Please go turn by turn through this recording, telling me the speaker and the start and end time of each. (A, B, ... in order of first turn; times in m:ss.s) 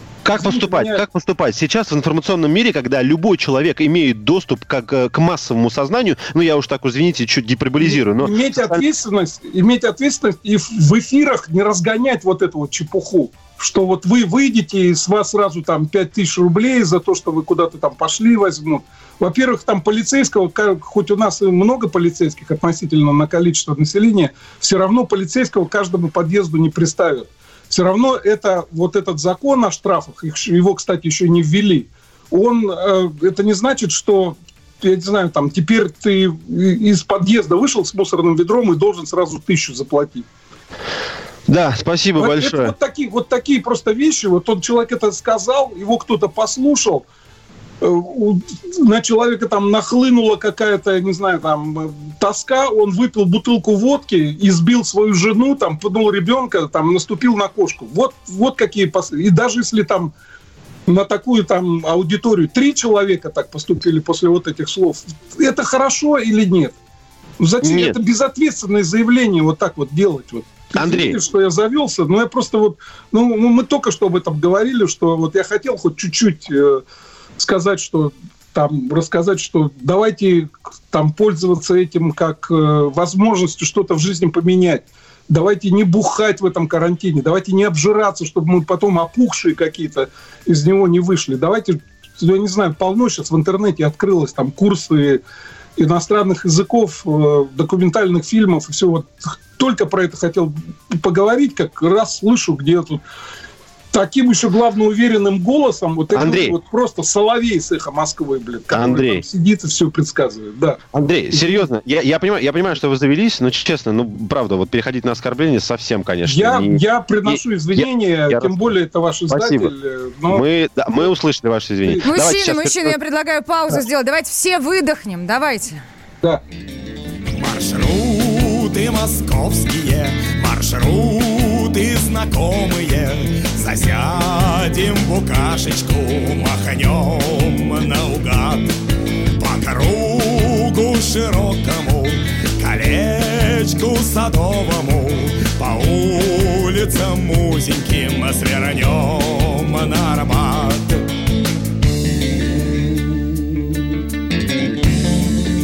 0:00.2-0:08.8 A
0:00.4-0:01.0 B
0:07.8-0:40.3 B
0:41.5-0:42.7 A
0:42.2-0:47.0 B
0:47.8-1:00.1 B
1:00.9-1:06.8 B
1:07.4-1:16.8 B
1:07.6-1:08.0 A
1:10.8-1:11.2 A
1:17.4-1:35.2 B
1:35.8-1:43.0 B
1:43.9-1:50.8 B
1:46.1-1:46.6 A
1:48.7-1:49.2 A
1:50.9-1:58.7 A
1:51.3-1:51.6 B
1:56.2-2:00.4 B
1:59.3-1:59.7 A
2:00.3-2:03.0 A
2:02.1-2:05.8 C
2:07.3-2:18.7 D
2:19.4-2:31.0 D